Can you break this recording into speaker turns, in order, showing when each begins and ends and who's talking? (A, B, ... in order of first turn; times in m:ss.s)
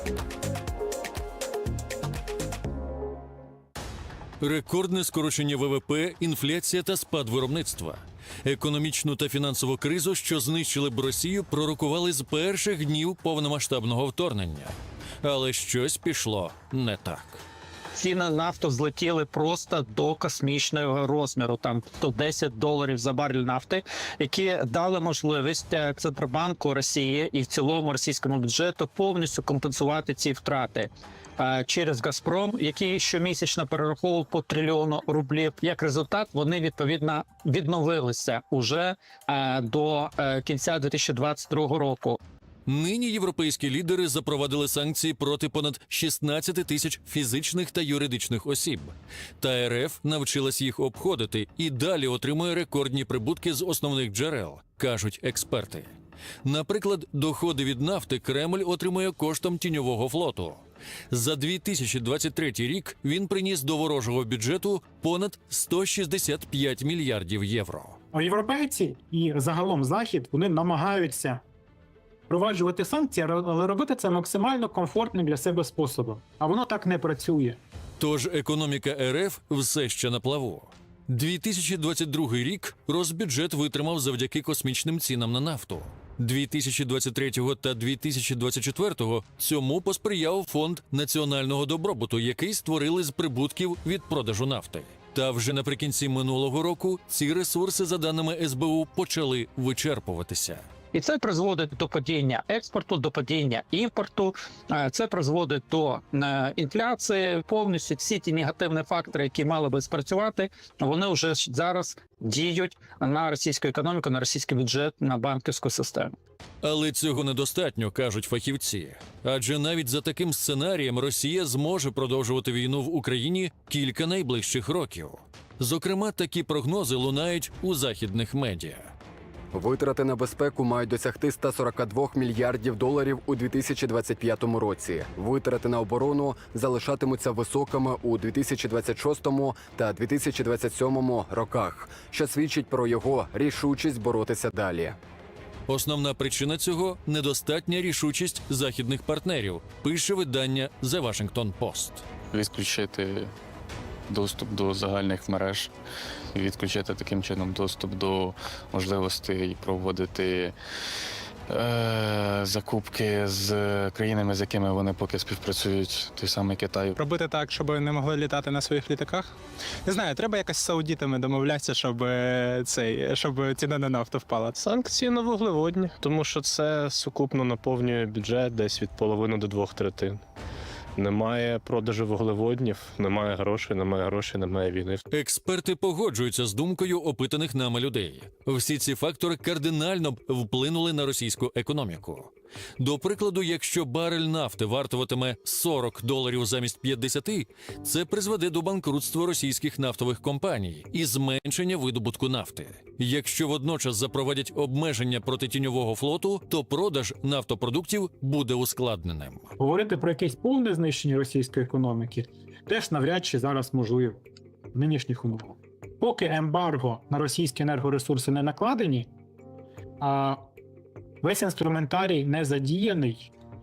0:04.4-0:17.4 A
0:17.9-0:42.2 B
0:42.7-0:55.9 A
0:56.4-1:08.0 A
1:08.1-1:11.4 C
1:12.3-1:17.6 C
1:18.0-1:40.6 A
1:40.9-1:56.1 B
1:56.6-2:08.9 A
2:09.5-2:25.0 D
2:25.7-2:32.0 A
2:32.3-2:33.3 E
2:34.1-2:35.7 E
2:36.3-2:40.5 E
2:41.5-2:47.0 E
2:47.0-2:54.6 F
2:54.6-3:00.2 G
3:01.0-3:05.0 G
3:05.1-3:29.5 A
3:29.6-3:34.2 C
3:34.7-3:39.1 C
3:40.0-3:40.4 C
3:41.2-3:43.3 C